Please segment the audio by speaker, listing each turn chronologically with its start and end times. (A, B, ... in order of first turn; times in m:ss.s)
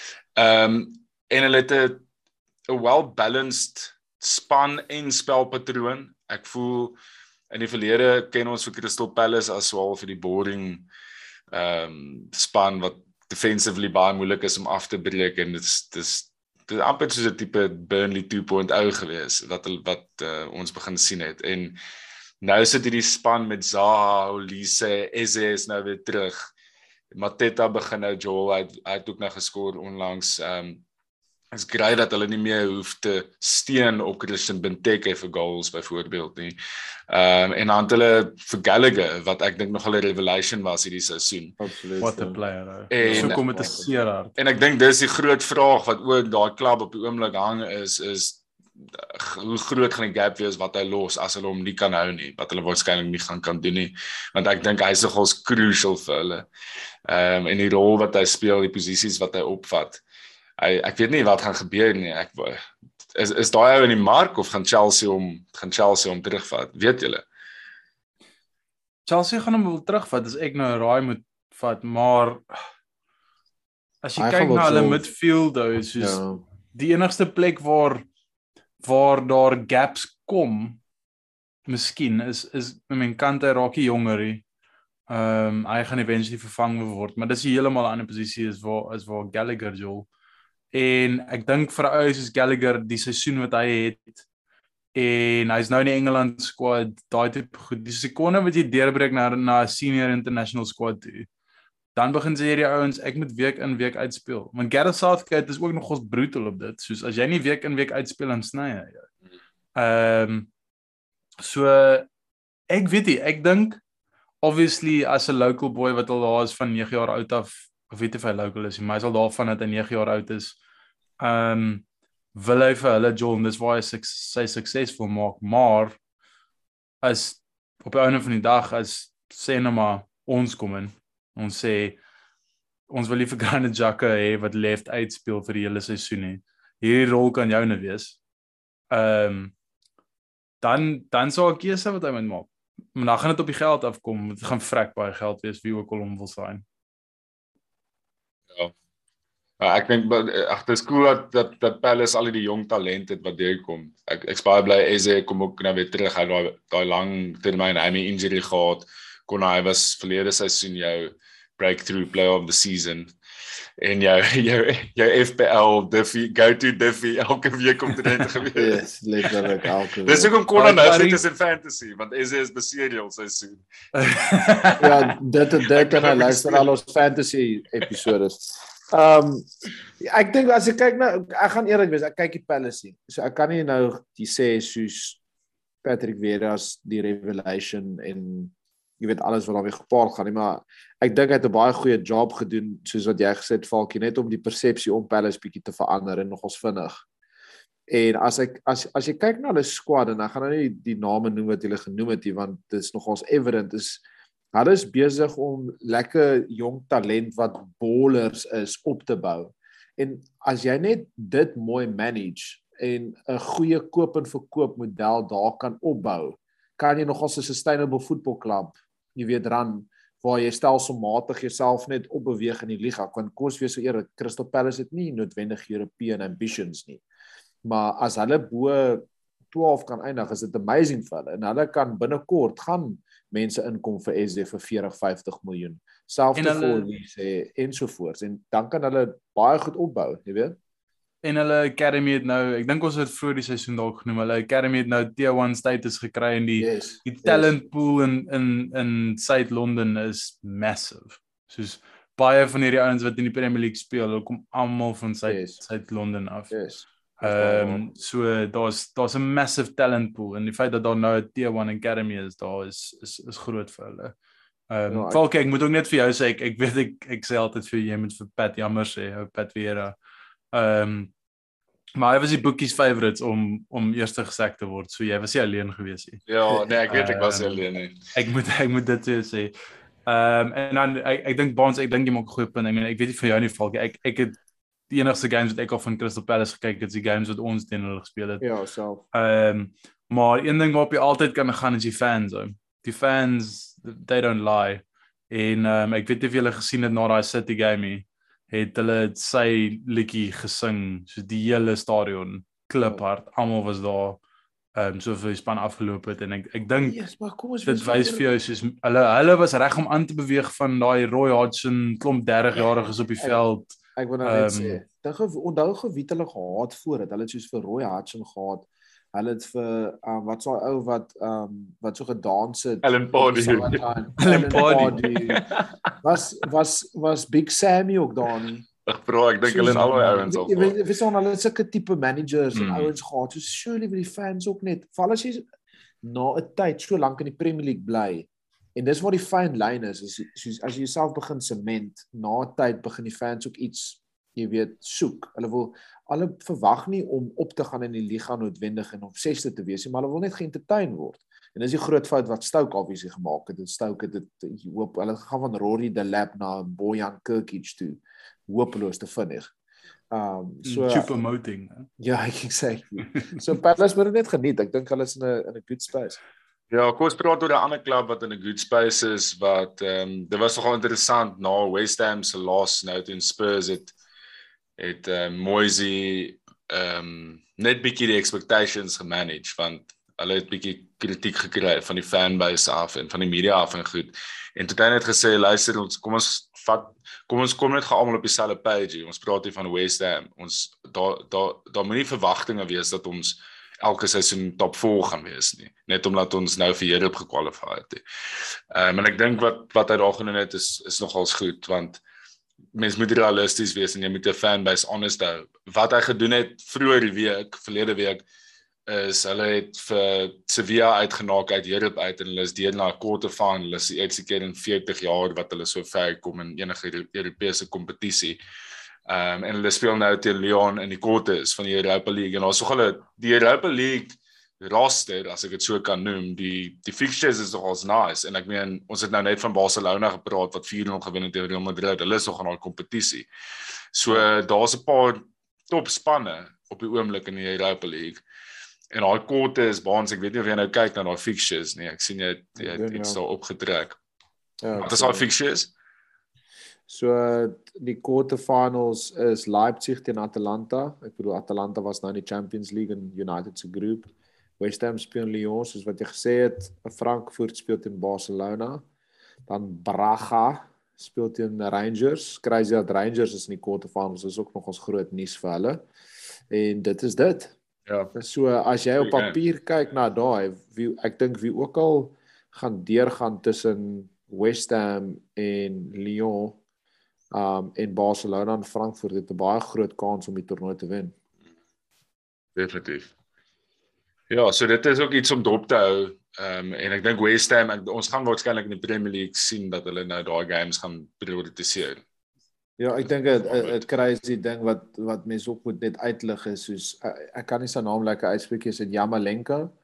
0:00.4-0:02.0 A
0:02.7-0:07.0 A
0:07.5-0:10.9 A
0:11.5-0:21.8 A
0:22.4-0:26.5 A
0:27.1-0:30.8 A
0:31.5-0:36.6 A
0:37.1-0:41.6 A
0:41.6-0:42.4 B
0:42.0-0:44.3 C
0:42.9-0:43.7 A
0:43.0-0:43.9 B
0:44.4-0:56.5 A
0:57.1-1:00.0 A
1:00.6-1:02.6 A
1:03.1-1:07.2 A
1:09.0-1:12.4 C
1:14.0-1:16.2 C
1:14.2-1:15.1 B
1:16.0-1:16.4 B
1:16.7-1:18.0 C
1:18.8-1:20.8 C
1:21.7-1:24.4 C
1:25.1-1:30.1 C
1:30.7-1:34.2 C
1:34.9-1:41.3 C
1:42.0-1:49.1 C
1:49.7-1:50.5 C
1:51.4-1:52.1 C
1:52.7-1:53.8 C
1:54.4-2:00.6 C
2:01.2-2:06.0 C
2:07.0-2:12.0 C
2:12.9-2:18.2 C
2:18.9-2:19.5 C
2:20.6-2:26.6 C
2:29.6-2:43.1 A
2:43.8-2:48.8 A
2:48.5-2:50.3 B
2:50.0-2:53.6 A
2:50.5-2:51.2 C
2:53.9-2:55.1 C
2:54.8-2:59.5 B
2:55.7-2:56.7 A
3:00.0-3:05.2 B
3:05.8-3:17.0 B
3:17.9-3:24.0 B
3:24.5-3:47.0 B
3:47.6-4:00.6 B
3:56.4-3:56.9 C
4:01.2-4:16.6 C
4:06.6-4:07.5 B
4:15.3-4:15.6 B
4:16.5-4:17.8 B
4:17.2-4:24.1 C
4:24.7-4:29.9 C
4:24.9-4:25.2 B
4:30.5-4:31.1 C
4:32.0-4:36.3 C
4:36.3-4:38.0 A
4:36.9-4:39.5 C
4:40.1-4:44.4 C
4:44.9-4:48.4 C
4:48.4-4:49.0 B
4:49.1-5:04.2 C
5:04.8-5:07.0 C
5:06.8-5:08.3 B
5:07.6-5:14.8 C
5:14.0-5:25.4 B
5:22.8-5:23.9 A
5:24.2-5:25.0 C
5:25.2-5:25.4 A
5:26.0-5:28.6 B
5:28.8-5:30.8 A
5:29.4-5:35.4 B
5:32.5-5:32.9 A
5:36.0-5:59.5 B
6:00.1-6:01.1 B
6:00.6-6:01.9 C
6:02.0-6:06.2 B
6:06.7-6:13.9 A
6:14.8-6:38.0 A
6:38.7-6:42.0 A
6:42.7-6:48.2 A
6:48.9-6:58.4 A
6:59.1-7:13.3 A
7:13.9-7:18.2 A
7:18.9-7:24.0 A
7:22.6-7:23.2 B
7:24.6-7:25.3 B
7:24.8-7:25.7 A
7:26.9-7:38.8 B
7:39.5-7:45.8 B
7:46.5-7:47.5 B
7:47.9-7:48.1 A
7:48.1-7:56.6 B
7:49.0-7:49.4 A
7:57.3-8:01.1 B
8:02.6-8:03.1 A
8:04.3-8:12.0 A
8:12.8-8:19.7 B
8:13.0-8:13.8 A